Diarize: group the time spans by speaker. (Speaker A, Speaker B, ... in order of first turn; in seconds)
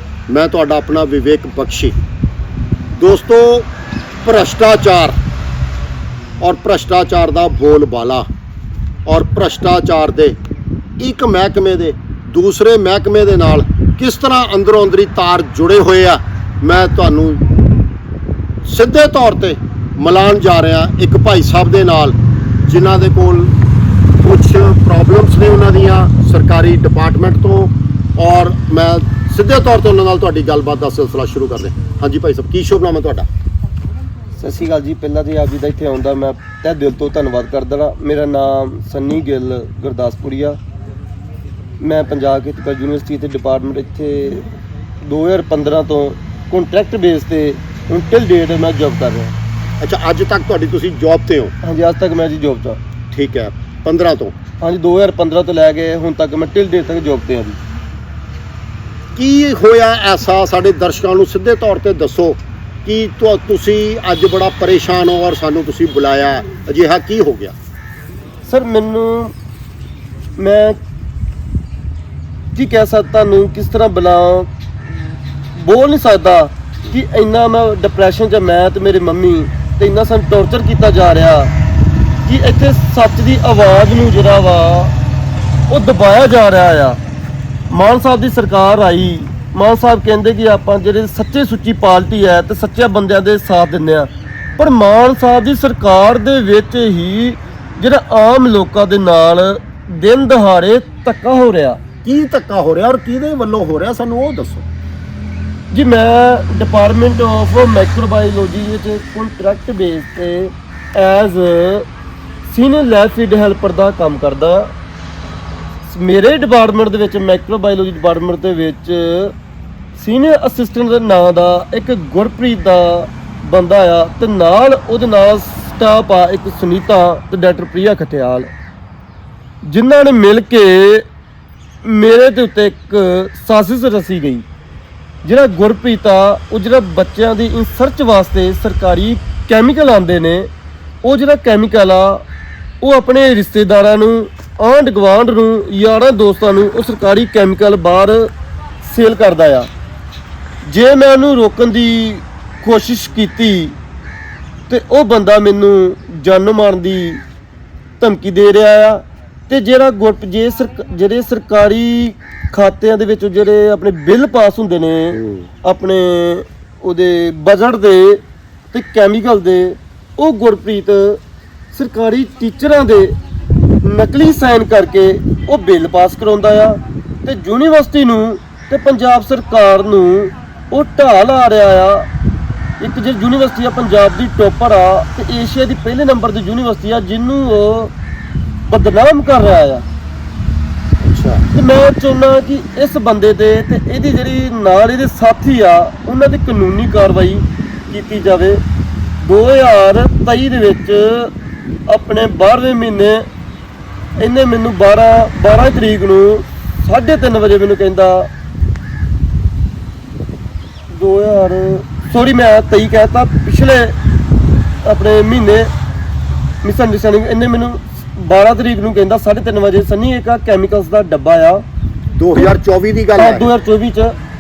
Speaker A: 0.3-1.9, 3.0-3.7, 4.2-5.2, 6.4-8.3, 9.1-10.4, 11.0-17.4, 18.6-22.2, 22.7-23.5, 24.2-33.3, 49.8-51.5, 53.1-54.4, 59.2-67.5, 102.0-104.7, 165.2-165.5, 191.0-191.4, 222.2-223.5
Speaker B: 34.4-40.6, 41.8-44.5, 45.0-49.4, 51.6-52.8, 54.6-57.6, 68.5-69.3, 70.4-70.8, 72.5-74.5, 75.6-81.5, 82.3-84.9, 85.7-87.0, 87.7-101.8, 105.7-111.9, 112.5-114.7, 115.9-119.3, 120.0-128.5, 129.6-131.1, 131.8-134.5, 135.2-140.5, 141.0-142.2, 142.8-148.3, 148.8-149.7, 150.7-153.8, 154.7-157.2, 158.0-168.2, 168.7-171.2, 171.7-173.2, 173.8-182.1, 182.8-187.9, 188.7-189.8, 191.5-198.6, 199.2-201.3, 201.9-203.2, 204.2-208.3, 210.9-213.9, 214.8-215.7, 216.6-221.6, 223.2-224.2